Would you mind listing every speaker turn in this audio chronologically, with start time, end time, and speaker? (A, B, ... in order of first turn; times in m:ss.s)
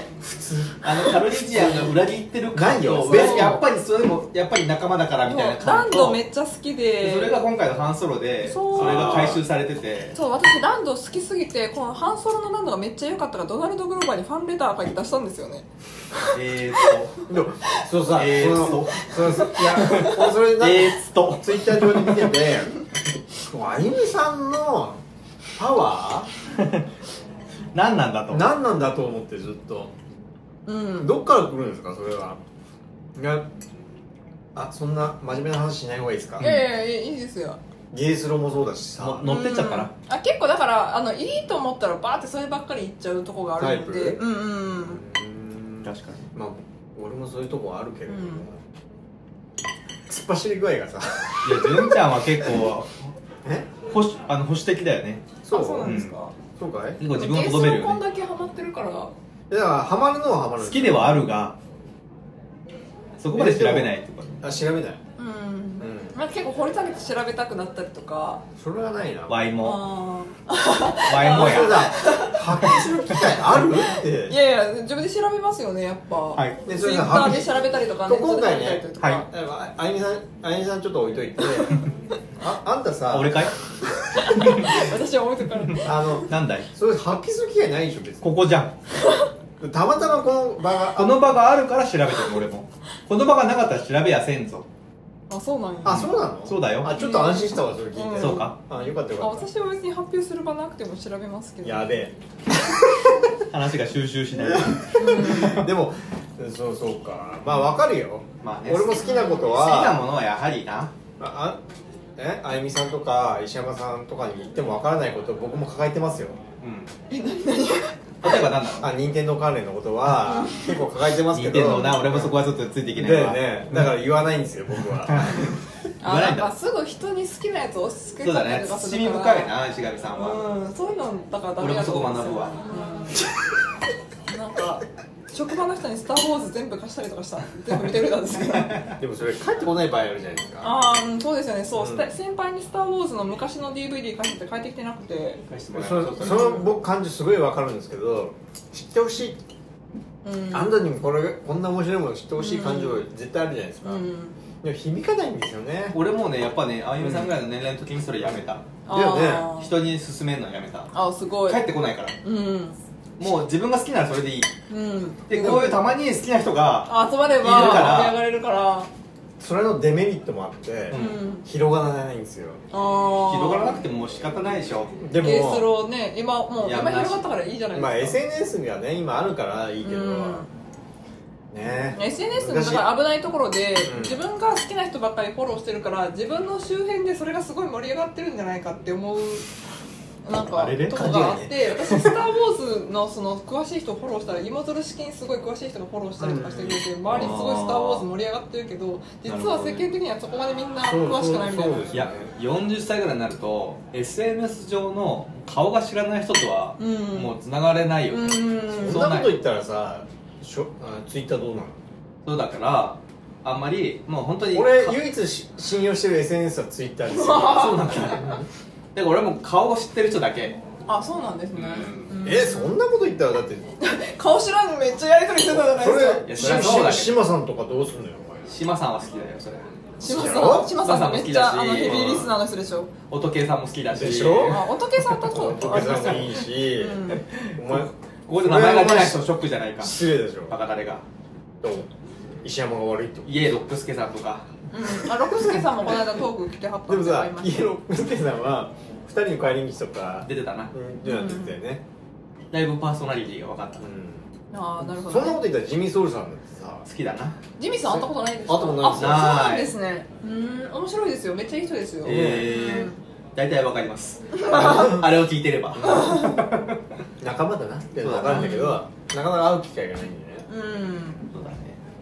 0:00.2-0:01.9 A
0:00.8-0:06.2 B
0:02.5-0:03.6 A
0:03.0-0:03.6 C
0:05.2-0:07.4 C
0:07.0-0:10.2 B
0:08.4-0:09.4 C
0:08.8-0:09.4 A
0:10.1-0:16.3 C
0:16.3-0:17.2 B
0:17.3-0:22.7 A
0:18.1-0:22.3 B
0:23.5-0:25.0 A
0:25.5-0:26.3 A
0:26.6-0:26.8 B
0:27.7-0:28.5 B
0:28.3-0:29.9 A
0:30.6-0:31.1 C
0:31.0-0:32.4 A
0:33.2-0:33.5 A
0:34.5-0:36.5 A
0:36.4-0:37.6 C
0:37.9-0:39.2 A
0:39.0-0:39.9 B
0:39.2-0:45.0 C
0:43.6-0:44.2 A
0:44.8-0:48.6 A
0:45.8-0:46.3 B
0:48.1-0:48.5 C
0:50.1-0:51.9 A
0:51.4-0:53.1 B
0:53.4-0:53.7 A
0:53.9-0:56.1 B
0:55.4-0:56.0 A
0:55.5-0:56.4 C
0:56.6-0:57.0 A
0:57.0-0:58.0 B
0:57.1-0:59.1 C
0:59.5-1:01.3 A
1:00.6-1:01.6 B
1:03.2-1:04.5 B
1:03.3-1:05.0 A
1:05.2-1:08.4 C
1:05.8-1:06.1 A
1:08.6-1:09.5 A
1:09.3-1:09.9 B
1:09.6-1:12.4 C
1:11.0-1:12.0 B
1:11.2-1:14.4 A
1:13.1-1:19.3 C
1:16.4-1:16.6 B
1:16.6-1:21.8 A
1:22.4-1:23.5 A
1:23.1-1:23.5 B
1:24.2-1:26.1 C
1:25.8-1:28.3 A
1:26.2-1:26.7 B
1:28.2-1:28.8 B
1:29.6-1:31.3 A
1:30.9-1:34.7 B
1:35.3-1:36.1 C
1:35.8-1:39.5 A
1:35.9-1:36.9 B
1:36.9-1:38.5 C
1:38.2-1:38.6 B
1:39.2-1:41.9 C
1:41.6-1:43.3 A
1:43.5-1:45.7 B
1:44.4-1:50.0 A
1:44.9-1:45.6 C
1:48.4-1:50.9 B
1:48.9-1:49.5 C
1:51.2-1:51.6 A
1:52.2-1:56.4 A
1:56.6-1:56.9 B
1:57.1-1:58.3 C
1:58.2-1:58.9 B
1:58.8-2:02.4 A
2:00.2-2:00.7 C
2:01.3-2:03.9 B
2:01.6-2:02.0 C
2:02.9-2:05.5 A
2:05.0-2:06.5 B
2:06.0-2:09.5 C
2:08.2-2:10.5 B
2:10.1-2:13.3 C
2:11.6-2:12.6 B
2:14.3-2:18.9 C
2:19.0-2:20.8 A
2:20.6-2:25.4 C
2:21.7-2:22.1 A
2:25.5-2:26.6 B
2:25.7-2:29.4 A
2:26.2-2:26.6 C
2:30.2-2:30.9 C
2:30.5-2:34.0 A
2:32.4-2:33.0 C
2:33.8-2:34.4 C
2:34.6-2:36.0 A
2:35.9-2:38.7 B
2:37.0-2:37.3 A
2:38.9-2:39.7 C
2:38.9-2:39.5 A
2:39.4-2:40.9 B
2:40.9-2:41.6 C
2:41.4-2:42.2 B
2:42.2-2:42.8 C
2:43.2-2:44.5 B
2:44.7-2:45.8 C
2:45.3-2:48.2 B
2:46.9-2:48.9 C
2:49.4-2:52.6 A
2:50.9-2:51.2 B
2:50.9-2:51.4 C
2:52.7-2:53.9 C
2:53.1-2:55.0 B
2:55.0-2:55.7 A
2:55.2-2:58.2 C
2:56.6-2:57.3 B
2:57.7-3:00.5 A
2:59.8-3:00.5 C
3:01.5-3:02.9 A
3:01.9-3:09.4 C
3:03.8-3:04.2 A
3:10.2-3:22.0 C
3:10.5-3:12.2 B
3:11.0-3:11.4 A
3:16.2-3:16.9 A
3:17.1-3:18.0 B
3:19.2-3:19.9 B
3:20.8-3:22.3 A
3:21.9-3:29.4 B
3:26.8-3:27.4 C
3:28.1-3:29.1 C
3:28.7-3:31.8 A
3:32.2-3:35.0 B
3:34.5-3:38.4 A
3:37.1-3:38.2 C
3:37.4-3:38.4 B
3:38.9-3:40.6 B
3:40.9-3:42.8 C
3:41.5-3:42.1 B
3:42.2-3:43.8 A
3:43.8-3:46.7 C
3:45.6-3:48.5 A
3:46.2-3:47.2 B
3:48.5-3:52.3 B
3:50.0-3:52.9 C
3:50.0-3:50.8 A
3:51.8-3:52.3 A
3:53.1-3:54.7 B
3:53.9-3:54.6 A
3:54.5-3:57.2 C
3:55.2-3:59.3 A
3:57.2-4:01.0 B
3:59.8-4:00.6 A
4:01.6-4:01.9 A
4:02.4-4:03.3 A
4:03.2-4:04.5 B
4:04.7-4:07.7 C
4:06.9-4:11.8 A
4:10.2-4:10.7 B
4:11.0-4:11.6 C
4:12.5-4:13.9 B
4:13.8-4:14.3 A
4:14.5-4:15.4 C
4:14.8-4:16.9 A
4:16.9-4:17.4 B
4:17.6-4:23.0 C
4:17.8-4:19.4 A
4:18.8-4:19.7 B
4:22.0-4:22.5 A
4:22.0-4:26.7 B
4:24.4-4:25.0 C
4:25.8-4:26.1 A
4:26.0-4:26.4 C
4:27.2-4:30.5 A
4:28.0-4:28.6 B
4:28.3-4:28.8 C
4:30.5-4:31.2 C
4:31.2-4:31.8 B